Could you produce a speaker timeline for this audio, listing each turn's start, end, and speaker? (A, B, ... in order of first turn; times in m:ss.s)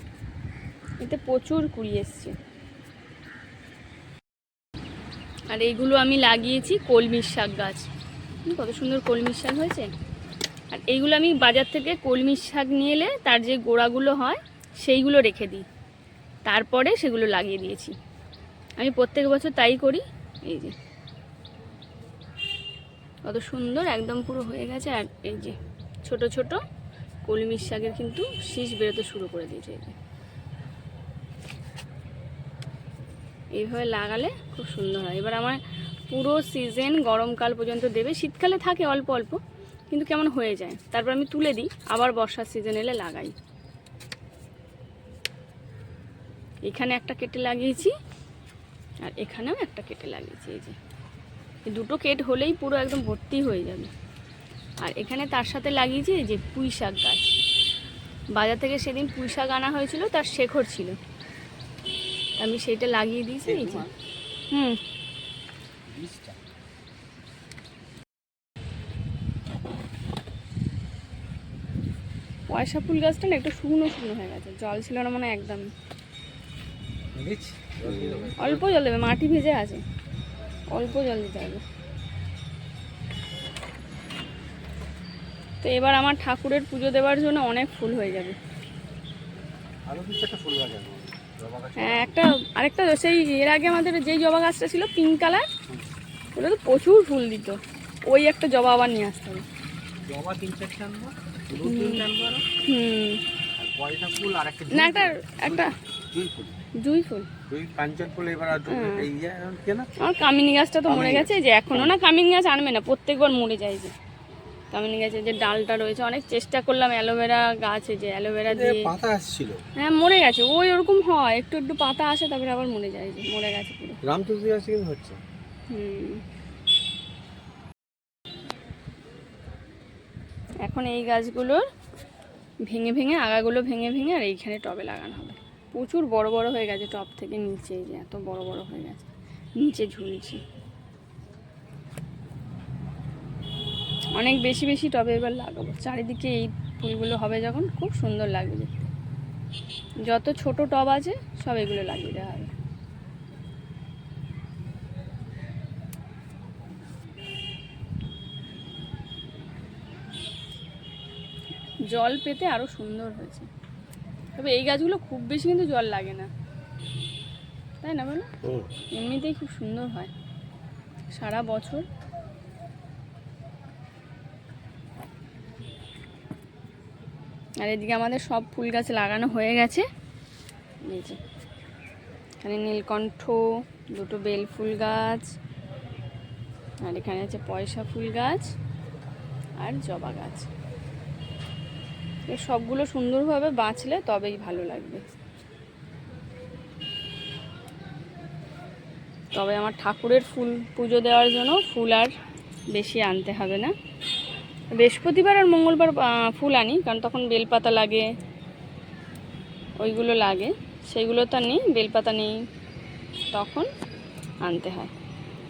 0:01.0-0:02.3 A
0:05.5-0:07.8 A
0:08.4-0:09.9 A
0:10.7-0:15.6 A
0:16.4-0:17.9 A
0:18.8-0:20.8 A
0:23.3-0:26.6 A
0:27.2-0:29.9 A
0:33.6-0:39.4 A
0:39.9-0:43.3 A
0:46.6-0:47.9 A
0:49.0-0:50.8 A
0:51.7-0:53.9 A
0:54.8-0:57.3 A
0:58.4-1:01.0 A
1:02.4-1:03.9 A
1:03.4-1:03.9 B
1:04.5-1:04.8 A
1:05.9-1:06.4 B
1:12.5-1:15.6 A
1:17.1-1:18.6 B
1:18.4-1:19.8 A
1:20.7-1:21.6 A
1:25.6-1:28.4 A
1:29.9-1:32.1 B
1:31.8-1:35.5 A
1:36.4-1:39.4 A
1:40.1-1:42.4 B
1:41.6-1:42.1 A
1:42.6-1:43.2 A
1:43.6-1:46.6 B
1:44.7-1:45.7 A
1:46.8-1:47.3 A
1:47.5-1:49.9 B
1:48.6-1:49.1 A
1:50.0-1:53.9 A
1:50.9-1:51.9 B
1:54.7-1:58.9 A
1:58.5-1:59.6 B
1:59.8-2:04.0 A
2:04.1-2:05.2 B
2:05.7-2:06.2 A
2:10.6-2:11.6 A
2:12.7-2:19.1 A
2:19.6-2:20.4 A
2:24.2-2:28.9 A
2:30.1-2:32.5 A
2:41.9-2:43.5 A
2:44.4-2:46.3 A
2:47.8-2:48.3 A
2:48.4-2:48.7 B
2:48.9-2:50.1 A
2:51.1-2:51.9 A
2:57.6-2:59.8 A
3:00.9-3:01.2 A
3:02.4-3:05.3 A
3:06.8-3:08.5 A
3:09.6-3:10.5 A
3:12.3-3:15.0 A
3:19.3-3:22.1 A
3:22.7-3:23.7 A
3:24.8-3:28.1 A
3:29.8-3:32.4 A
3:33.3-3:33.7 A
3:34.4-3:34.9 A